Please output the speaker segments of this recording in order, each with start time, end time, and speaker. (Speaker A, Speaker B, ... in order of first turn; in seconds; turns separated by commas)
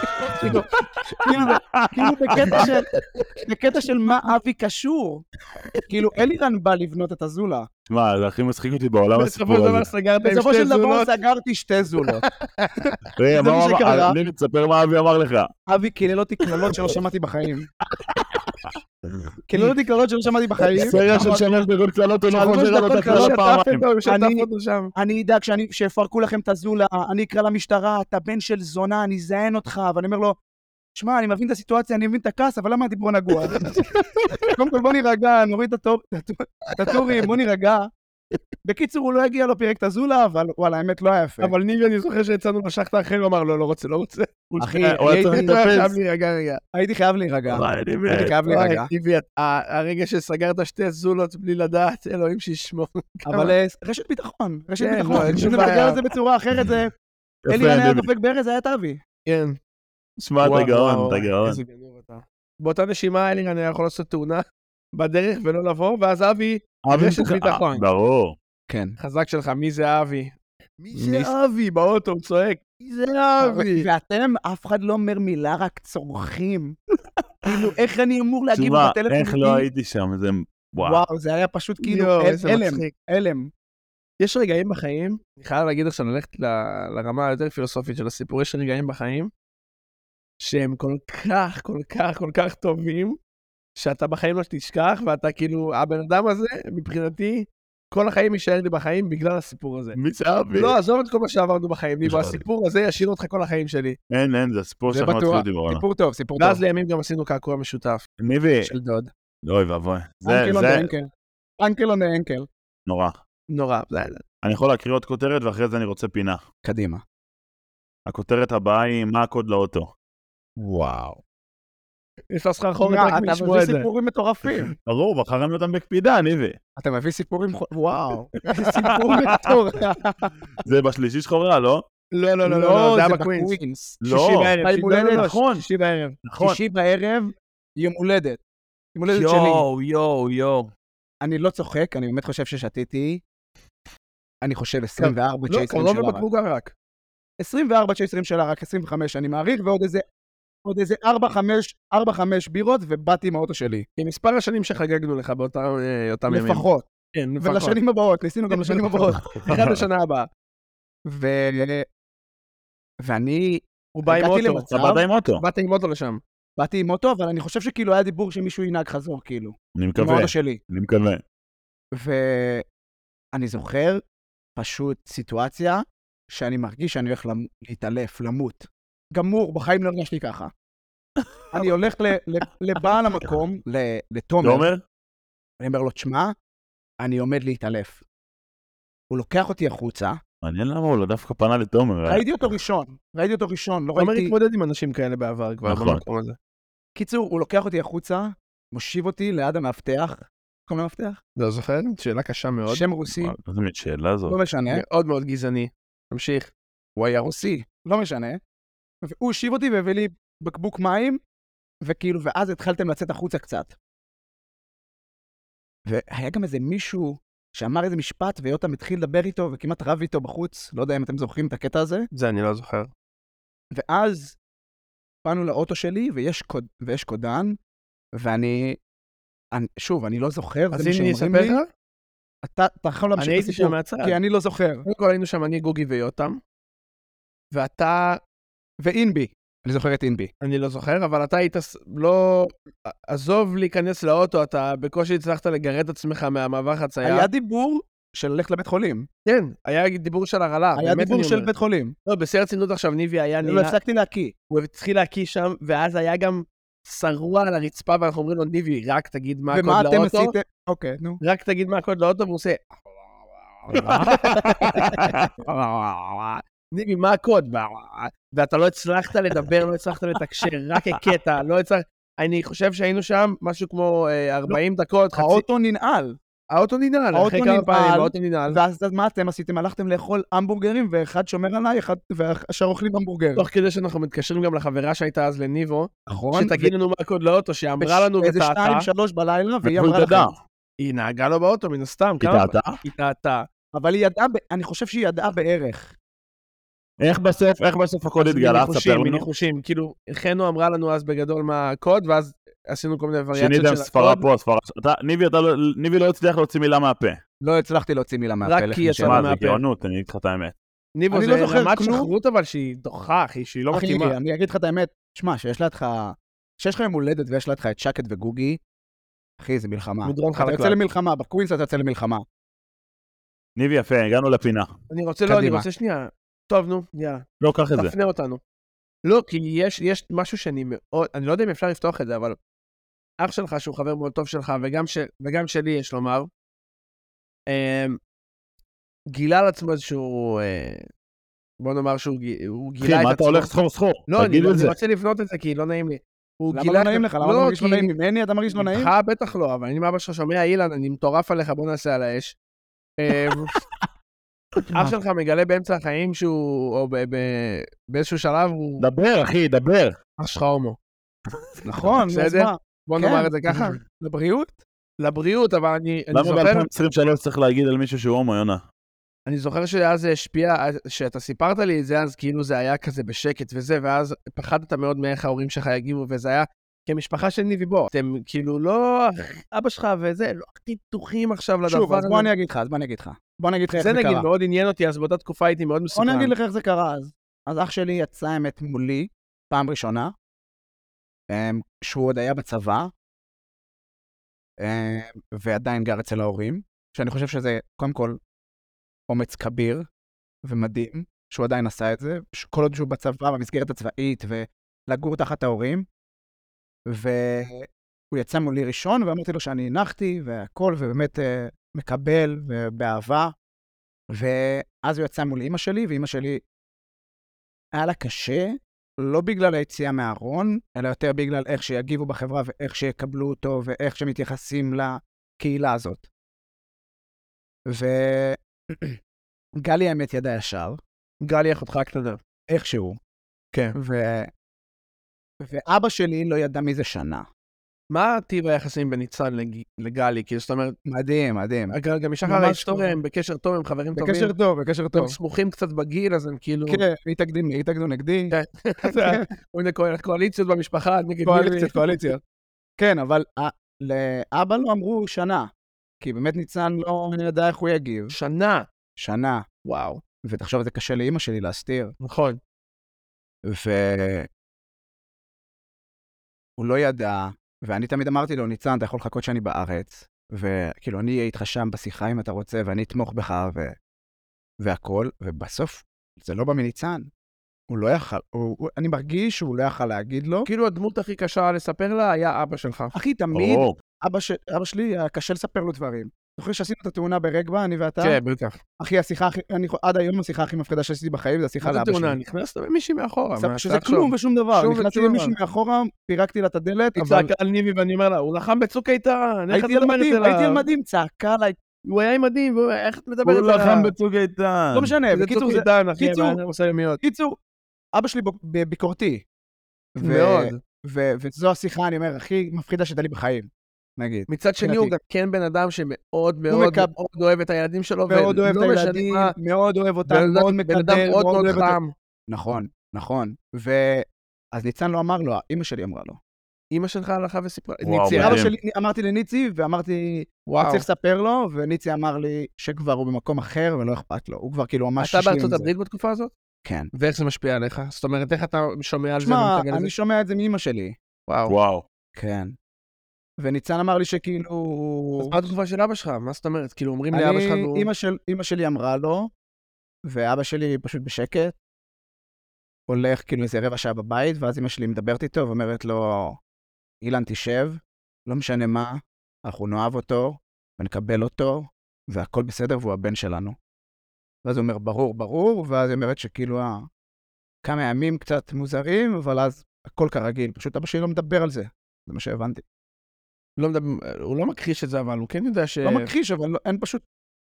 Speaker A: 0.4-0.6, Speaker B: 0.4-5.2, Speaker C: 1.2-2.7, Speaker A: 2.4-2.7, Speaker B: 5.9-7.7, Speaker C: 7.9-9.9, Speaker A: 9.1-11.1, Speaker B: 10.2-12.2, Speaker A: 12.6-12.9, Speaker C: 13.2-15.5, Speaker B: 13.3-14.2, Speaker B: 15.7-17.7, Speaker C: 18.0-18.5, Speaker B: 19.5-21.4, Speaker C: 20.7-23.8, Speaker B: 22.3-23.5, Speaker A: 23.0-24.9, Speaker B: 24.0-30.4, Speaker B: 30.9-33.8, Speaker A: 33.6-34.4, Speaker B: 34.5-37.9, Speaker B: 38.6-41.5, Speaker A: 41.4-44.4, Speaker C: 44.5-45.9, Speaker B: 44.6-45.5, Speaker A: 45.2-46.6, Speaker B: 46.7-48.9, Speaker C: 47.5-48.3, Speaker A: 48.5-53.5, Speaker B: 53.3-56.9, Speaker A: 54.8-56.0, Speaker C: 55.1-55.5, Speaker C: 57.5-58.1, Speaker B: 57.5-59.0, Speaker A: 59.3-59.6, Speaker C: 60.2-61.6, Speaker A: 60.4-67.8, Speaker C: 66.8-68.3, Speaker B: 68.7-69.0, Speaker A: 69.0-73.9, Speaker B: 70.9-71.3, Speaker B: 73.4-76.8, Speaker B: 77.4-79.7, Speaker C: 78.5-81.0, Speaker B: 80.8-83.5, Speaker A: 81.8-82.9, Speaker A: 84.2-89.3, Speaker A: 90.4-93.2, Speaker A: 93.8-100.0, Speaker C: 99.9-100.8, Speaker A: 100.5-104.0, Speaker C: 102.0-102.4, Speaker C: 104.1-105.8, Speaker B: 104.9-106.6, Speaker A: 106.4-108.0, Speaker C: 108.2-108.7, Speaker B: 108.7-109.1, Speaker C: 109.4-110.9, Speaker B: 110.2-112.5, Speaker C: 112.9-113.2, Speaker A: 113.5-114.2, Speaker C: 114.4-116.4, Speaker B: 116.6-117.0, Speaker C: 118.1-119.9, Speaker B: 120.6-121.2, Speaker A: 122.3-123.9, Speaker B: 122.8-124.7, Speaker C: 124.8-126.6, Speaker B: 126.8-130.3, Speaker C: 128.9-129.5, Speaker C: 130.6-131.8, Speaker A: 132.1-136.2, Speaker B: 132.4-134.0, Speaker C: 134.0-134.6, Speaker B: 134.6-135.3, Speaker C: 135.1-135.6, Speaker C: 136.2-136.6, Speaker B: 136.4-138.4, Speaker B: 138.9-139.6, Speaker A: 139.1-140.7, Speaker B: 141.2-143.2, Speaker B: 144.4-146.2, Speaker A: 145.0-146.7, Speaker B: 147.4-150.0, Speaker B: 150.6-153.8, Speaker A: 154.0-157.8, Speaker B: 156.3-156.9, Speaker B: 157.4-159.2, Speaker A: 158.6-160.3, Speaker B: 161.1-161.8, Speaker B: 163.0-165.0, Speaker A: 163.9-164.7, Speaker C: 164.7-165.4, Speaker A: 165.4-166.2, Speaker B: 166.6-170.6, Speaker C: 169.8-171.2, Speaker B: 171.9-172.6, Speaker B: 173.3-174.0, Speaker B: 174.6-180.5, Speaker B: 181.5-184.7, Speaker C: 184.4-184.8, Speaker B: 185.6-186.3, Speaker B: 187.0-188.0, Speaker B: 189.1-190.2, Speaker C: 190.4-192.2, Speaker B: 192.1-194.3, Speaker A: 193.9-196.4, Speaker C: 195.7-196.0, Speaker B: 196.9-201.2, Speaker A: 201.4-202.8, Speaker B: 202.7-203.3, Speaker C: 203.2-204.4, Speaker B: 204.3-204.8, Speaker A: 204.7-206.5, Speaker B: 207.0-208.4, Speaker B: 209.0-211.2, Speaker B: 211.8-213.8, Speaker B: 215.8-222.1, Speaker A: 222.1-222.9, Speaker B: 223.7-224.4, Speaker B: 225.2-227.6, Speaker B: 228.2-228.8, Speaker B: 229.5-231.6, Speaker A: 230.7-231.7, Speaker B: 232.4-234.8, Speaker A: 233.2-234.2, Speaker A: 234.8-236.4, Speaker A: 237.5-238.2, Speaker B: 238.8-240.3, Speaker A: 240.4-247.3, Speaker B: 247.0-249.1, Speaker A: 249.2-251.5, Speaker B: 250.8-251.9, Speaker A: 252.1-253.8, Speaker B: 253.4-254.3, Speaker A: 254.5-260.3, Speaker B: 259.5-261.2, Speaker A: 261.2-262.6, Speaker B: 263.7-266.4, Speaker A: 263.7-265.2, Speaker C: 264.6-265.3, Speaker A: 266.7-275.4, Speaker B: 275.1-276.2, Speaker A: 276.5-278.6, Speaker B: 277.1-283.5, Speaker A: 283.4-288.9, Speaker B: 286.1-286.7, Speaker B: 287.8-290.3, Speaker C: 289.6-290.4, Speaker A: 290.8-293.4, Speaker C: 292.2-292.8, Speaker B: 293.7-295.9, Speaker C: 297.0-299.3, Speaker A: 298.2-304.2, Speaker C: 303.3-307.2, Speaker B: 307.4-309.3, Speaker A: 308.4-309.6, Speaker C: 309.0-310.5, Speaker A: 311.0-314.1, Speaker B: 311.1-312.1, Speaker B: 313.7-318.6, Speaker B: 319.4-322.2, Speaker A: 320.0-320.8, Speaker C: 323.6-324.7, Speaker A: 324.9-328.4, Speaker B: 325.3-325.7, Speaker C: 327.4-327.9, Speaker A: 329.0-332.4, Speaker A: 333.2-336.3, Speaker A: 337.5-338.0, Speaker A: 339.1-340.9, Speaker A: 341.6-343.5, Speaker C: 342.8-344.7, Speaker A: 344.1-347.9, Speaker B: 346.5-348.9, Speaker A: 348.5-352.4, Speaker A: 353.0-353.5, Speaker A: 354.7-358.8, Speaker C: 358.8-359.9, Speaker A: 360.2-360.8, Speaker B: 361.6-364.6, Speaker A: 362.1-363.8, Speaker A: 365.0-366.7, Speaker C: 366.1-368.6, Speaker A: 369.3-382.3, Speaker B: 381.6-384.2, Speaker A: 383.7-386.3, Speaker B: 385.9-390.1, Speaker B: 391.3-392.9, Speaker B: 394.6-398.2, Speaker B: 399.1-399.9, Speaker B: 400.4-405.9, Speaker B: 406.9-413.3, Speaker B: 414.1-416.4, Speaker B: 417.7-426.1, Speaker B: 427.7-429.0, Speaker B: 429.6-430.8, Speaker A: 431.2-432.2, Speaker B: 432.5-433.0, Speaker B: 433.7-434.3, Speaker B: 435.4-437.3, Speaker A: 437.9-440.8, Speaker B: 440.9-443.0, Speaker A: 441.7-444.3, Speaker B: 443.9-445.2, Speaker A: 444.9-446.8, Speaker B: 446.7-449.2, Speaker A: 448.3-452.1, Speaker B: 451.2-452.2, Speaker B: 452.8-455.5, Speaker B: 456.0-458.1, Speaker A: 458.1-458.6, Speaker B: 459.0-459.4, Speaker A: 459.6-460.0, Speaker B: 460.2-461.9, Speaker A: 462.0-462.4, Speaker B: 463.5-464.3, Speaker B: 466.6-473.8, Speaker B: 474.6-477.1, Speaker B: 477.7-480.5, Speaker A: 480.4-482.9, Speaker B: 482.9-488.2, Speaker C: 483.3-483.7, Speaker A: 488.0-488.6, Speaker B: 488.8-492.2, Speaker A: 491.6-495.4, Speaker B: 493.4-497.3, Speaker A: 496.9-500.6, Speaker B: 499.5-501.6, Speaker A: 501.8-503.9, Speaker C: 503.2-504.9, Speaker B: 504.7-506.4, Speaker A: 505.1-507.0, Speaker B: 507.0-507.4, Speaker B: 507.9-509.2, Speaker B: 510.0-514.9, Speaker A: 510.0-510.6, Speaker A: 514.3-519.3, Speaker B: 516.5-516.9, Speaker B: 518.1-521.8, Speaker A: 520.1-521.9, Speaker B: 522.3-526.2, Speaker A: 526.7-528.4, Speaker C: 527.8-528.5, Speaker B: 528.1-535.7, Speaker A: 530.5-530.9, Speaker A: 535.0-536.3, Speaker B: 536.6-536.9, Speaker A: 536.9-539.9, Speaker B: 539.2-541.0, Speaker A: 541.3-541.5, Speaker C: 541.5-541.8, Speaker B: 542.1-542.5, Speaker B: 543.4-545.4, Speaker A: 545.2-547.9, Speaker B: 547.1-549.3, Speaker B: 550.1-551.5, Speaker B: 552.9-556.4, Speaker B: 557.0-563.5, Speaker B: 564.4-566.9, Speaker B: 567.6-572.6, Speaker A: 573.6-576.1, Speaker B: 575.8-577.0